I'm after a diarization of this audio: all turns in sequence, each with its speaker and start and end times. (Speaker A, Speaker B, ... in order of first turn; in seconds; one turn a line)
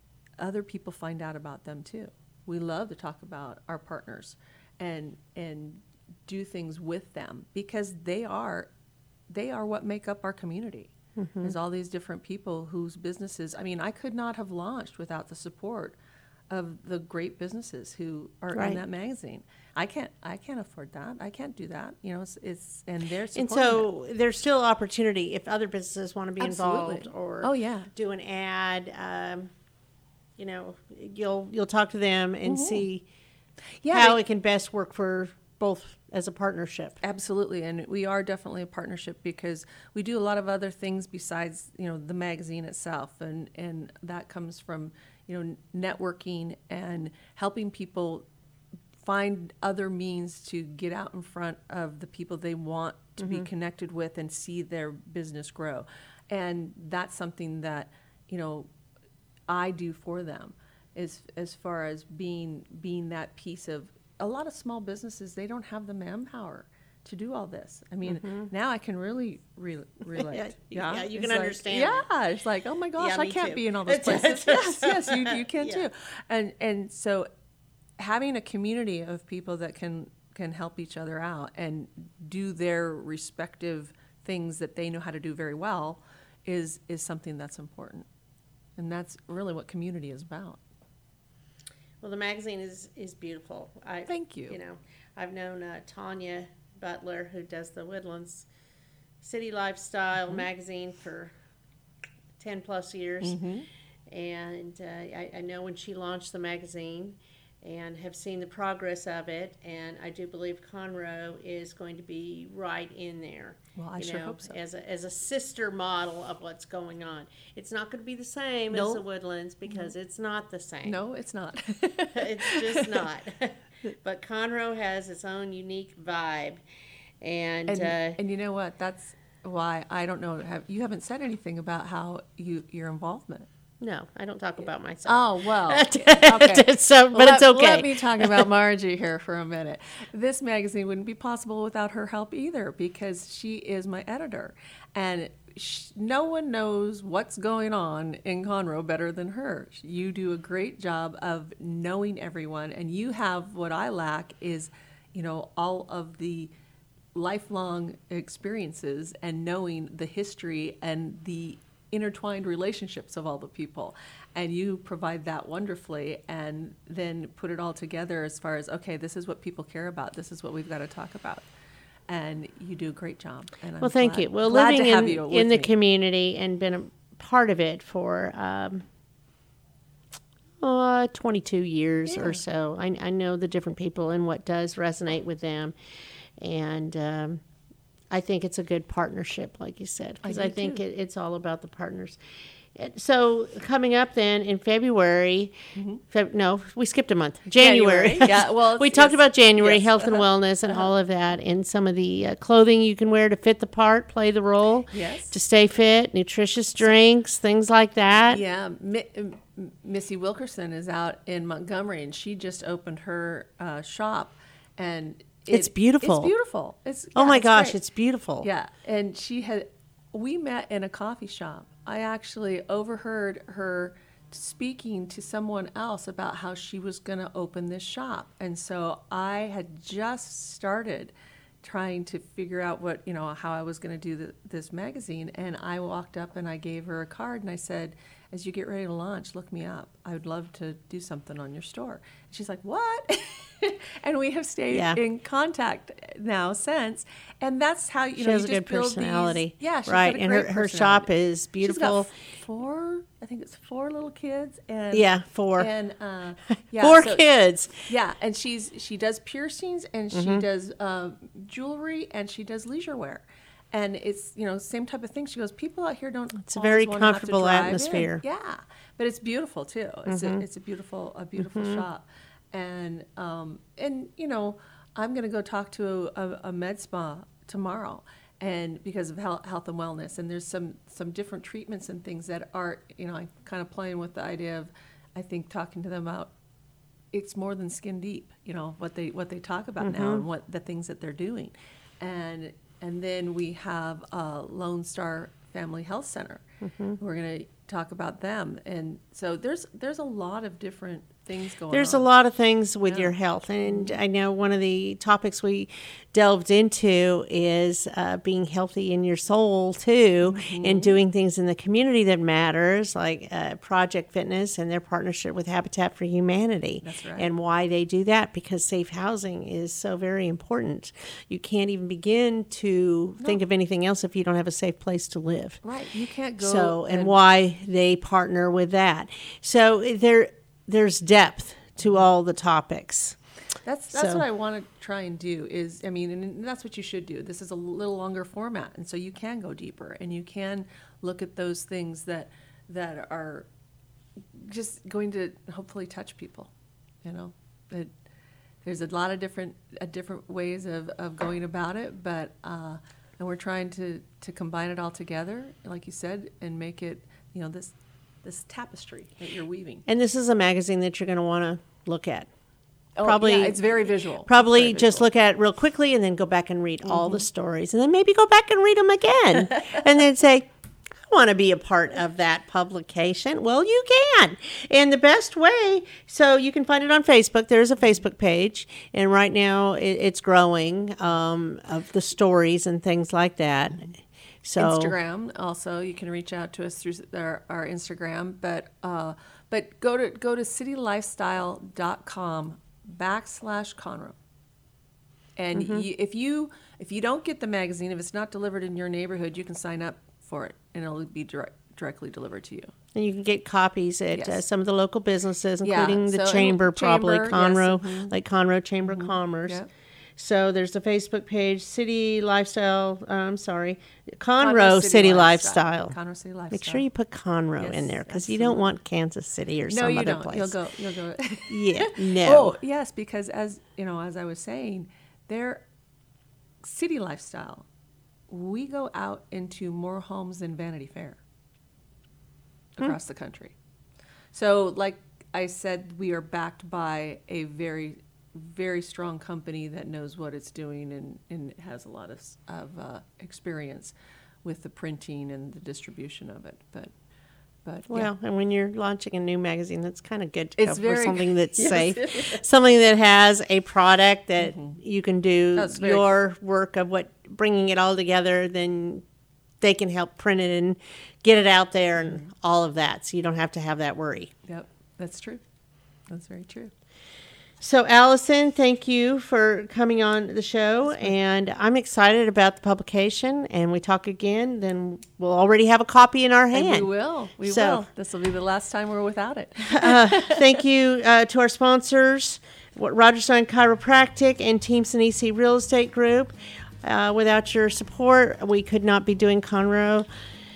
Speaker A: 0.4-8.7
Speaker A: 9.3-16.0
Speaker B: 11.2-11.5
Speaker A: 16.5-23.9
Speaker B: 18.5-18.8
Speaker B: 23.3-29.5
Speaker A: 26.4-27.9
Speaker B: 30.4-33.0
Speaker A: 32.4-32.9
Speaker A: 33.8-34.2
Speaker B: 33.9-37.0
Speaker A: 37.0-48.2
Speaker A: 49.0-58.7
Speaker B: 53.2-53.5
Speaker A: 59.5-77.3
Speaker B: 68.0-68.5
Speaker B: 70.2-72.0
Speaker B: 73.0-75.8
Speaker A: 78.0-88.0
Speaker A: 88.8-90.6
Speaker B: 92.0-98.5
Speaker A: 94.1-94.6
Speaker B: 99.2-101.3
Speaker B: 102.4-103.4
Speaker A: 103.2-103.7
Speaker B: 104.1-121.0
Speaker A: 113.7-114.6
Speaker A: 118.7-119.0
Speaker A: 119.7-119.9
Speaker A: 120.8-123.0
Speaker B: 122.1-126.6
Speaker B: 127.2-128.2
Speaker A: 127.7-133.5
Speaker B: 133.8-138.4
Speaker A: 135.1-156.5
Speaker A: 157.1-171.4
Speaker A: 172.1-175.7
Speaker B: 173.8-178.8
Speaker B: 180.6-185.7
Speaker A: 182.1-182.4
Speaker B: 186.4-187.4
Speaker B: 188.1-192.2
Speaker A: 190.2-190.8
Speaker B: 192.7-195.6
Speaker A: 195.7-196.0
Speaker B: 196.1-208.4
Speaker A: 197.5-200.9
Speaker A: 204.9-205.3
Speaker A: 208.2-217.8
Speaker B: 215.5-216.3
Speaker B: 217.1-218.5
Speaker A: 218.4-251.1
Speaker B: 244.7-245.0
Speaker B: 248.2-252.1
Speaker A: 251.6-257.2
Speaker B: 254.9-255.7
Speaker B: 256.8-257.8
Speaker A: 257.9-286.3
Speaker B: 260.1-260.4
Speaker B: 266.4-268.2
Speaker B: 270.1-270.4
Speaker B: 271.4-271.8
Speaker A: 287.1-296.4
Speaker B: 289.8-290.2
Speaker B: 296.6-297.0
Speaker A: 297.0-302.1
Speaker B: 301.7-325.6
Speaker A: 302.8-304.0
Speaker A: 310.2-311.0
Speaker A: 316.8-317.3
Speaker A: 325.6-327.2
Speaker B: 326.4-333.2
Speaker A: 333.6-343.5
Speaker B: 333.9-334.2
Speaker A: 344.3-346.5
Speaker A: 347.0-347.9
Speaker A: 348.6-359.8
Speaker B: 359.9-362.3
Speaker A: 363.0-365.1
Speaker B: 363.0-370.5
Speaker A: 366.8-367.3
Speaker B: 371.1-383.9
Speaker B: 384.4-384.9
Speaker A: 384.6-394.1
Speaker A: 395.4-402.7
Speaker B: 395.5-395.8
Speaker B: 402.9-409.6
Speaker A: 404.1-404.4
Speaker A: 405.6-408.1
Speaker A: 408.8-409.7
Speaker B: 410.2-415.9
Speaker A: 414.4-416.9
Speaker B: 416.5-420.6
Speaker A: 417.6-418.7
Speaker A: 419.7-425.6
Speaker B: 421.5-422.6
Speaker A: 426.6-427.6
Speaker A: 428.3-431.2
Speaker A: 432.8-433.5
Speaker A: 434.3-446.9
Speaker A: 447.6-448.1
Speaker B: 447.9-459.0
Speaker A: 450.6-452.4
Speaker A: 454.4-454.8
Speaker A: 455.5-456.1
Speaker B: 459.6-464.3
Speaker A: 464.4-465.4
Speaker A: 466.1-466.7
Speaker B: 467.6-476.9
Speaker A: 470.8-471.1
Speaker A: 476.5-480.6
Speaker B: 477.4-477.9
Speaker B: 479.7-490.1